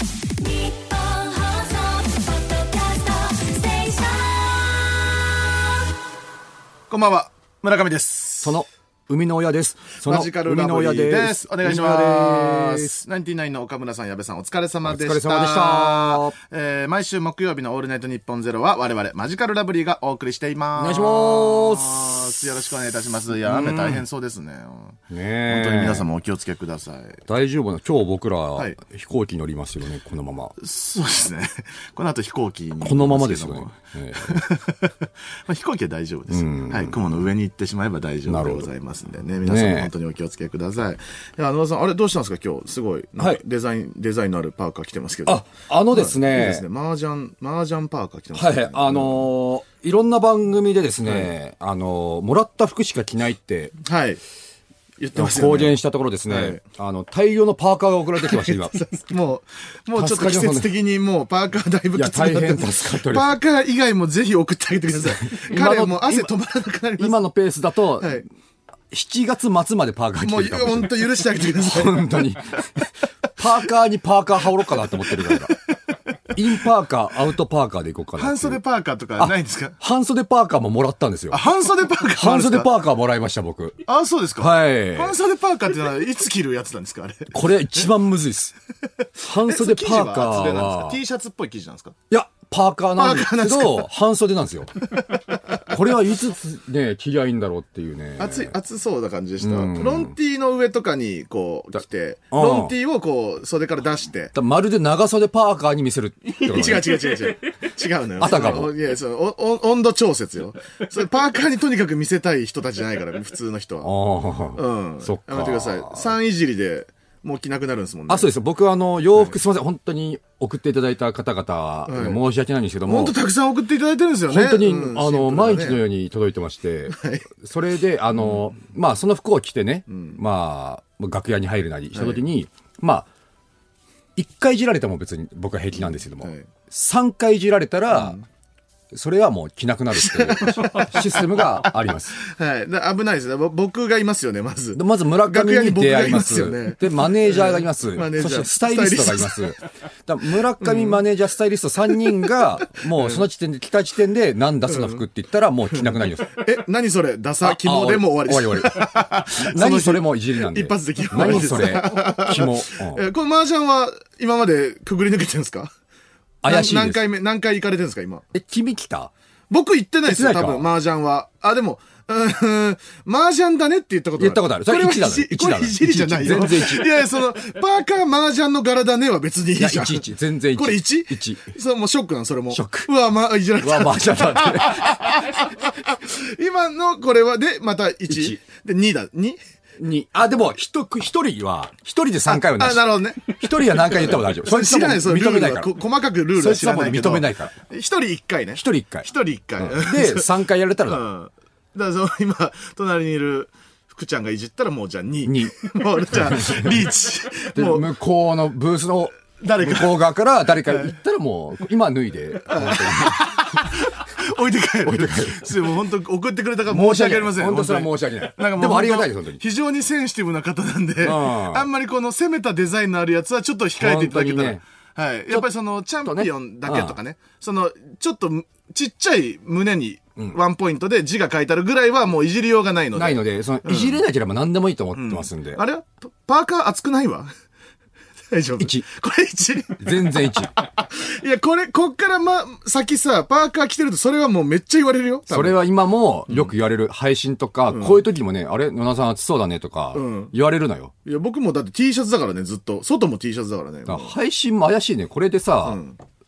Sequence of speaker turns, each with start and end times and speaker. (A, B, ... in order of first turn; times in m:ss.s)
0:00.4-0:04.6 A
0:06.9-0:08.6 B
0:08.4-0:12.9 C
0:10.0-0:27.2 B
0:14.8-0:16.4 C
0:20.8-0:22.2 C
0:23.4-0:24.0 C
0:25.1-0:26.1 C
0:27.3-0:30.6 C
0:30.6-0:49.3 B
0:32.8-0:34.4 C
0:36.3-0:37.0 C
0:38.3-0:38.7 C
0:39.4-0:39.9 C
0:45.3-0:46.6 C
0:48.4-0:53.8 C
0:53.8-0:54.2 B
0:55.0-0:55.8 B
0:55.2-0:58.8 C
0:56.3-0:56.6 B
0:58.2-1:07.2 B
1:00.0-1:00.7 C
1:02.0-1:03.3 C
1:05.2-1:06.3 C
1:07.0-1:08.2 C
1:08.0-1:08.2 B
1:08.9-1:15.6 C
1:10.2-1:12.2 B
1:16.3-1:18.6 C
1:18.2-1:19.8 B
1:19.2-1:21.4 C
1:21.3-1:22.7 B
1:22.1-1:23.8 C
1:23.9-1:27.4 B
1:24.4-1:25.2 C
1:27.3-1:28.6 C
1:29.2-1:31.0 C
1:29.3-1:32.0 B
1:32.1-1:34.8 C
1:33.0-1:33.9 B
1:35.0-1:35.7 B
1:35.7-1:38.6 C
1:38.2-1:44.3 B
1:39.4-1:40.2 C
1:42.3-1:42.7 C
1:44.3-1:47.0 C
1:46.3-1:53.9 B
1:48.2-1:48.7 C
1:53.8-1:56.1 C
1:54.6-1:58.3 B
1:58.1-2:03.2 C
2:01.9-2:02.2 B
2:02.8-2:05.8 B
2:04.3-2:13.1 C
2:06.9-2:07.3 B
2:09.9-2:10.2 B
2:11.9-2:12.2 B
2:14.2-2:18.2 C
2:16.2-2:16.5 B
2:17.9-2:18.3 B
2:18.9-2:22.2 C
2:20.0-2:29.5 B
2:24.8-2:36.3 C
2:30.6-2:31.0 B
2:32.9-2:33.3 B
2:34.7-2:35.0 B
2:35.7-2:45.7 B
2:37.4-2:43.0 C
2:46.4-2:47.0 C
2:46.4-2:48.3 B
2:48.3-2:49.1 C
2:49.5-3:09.4 B
2:50.1-2:50.7 C
2:54.2-2:56.9 C
2:59.6-3:01.4 C
3:02.5-3:02.9 C
3:03.6-3:05.3 C
3:08.1-3:08.4 C
3:09.8-3:15.7 C
3:12.3-3:27.9 B
3:16.4-3:17.5 C
3:18.6-3:21.0 C
3:25.3-3:26.9 C
3:27.6-3:33.8 C
3:29.4-3:30.0 B
3:30.6-3:31.0 B
3:32.4-3:54.0 B
3:34.8-3:35.6 C
3:36.7-3:39.4 C
3:41.0-3:41.7 C
3:43.8-3:44.6 C
3:46.0-3:47.0 C
3:52.9-3:55.6 C
3:55.0-3:57.3 B
3:58.3-4:05.6 B
3:58.6-3:58.8 C
3:59.8-4:00.5 C
4:05.3-4:10.9 C
4:07.7-4:08.0 B
4:09.9-4:10.3 B
4:11.0-4:14.1 B
4:13.9-4:15.8 C
4:15.6-4:16.0 B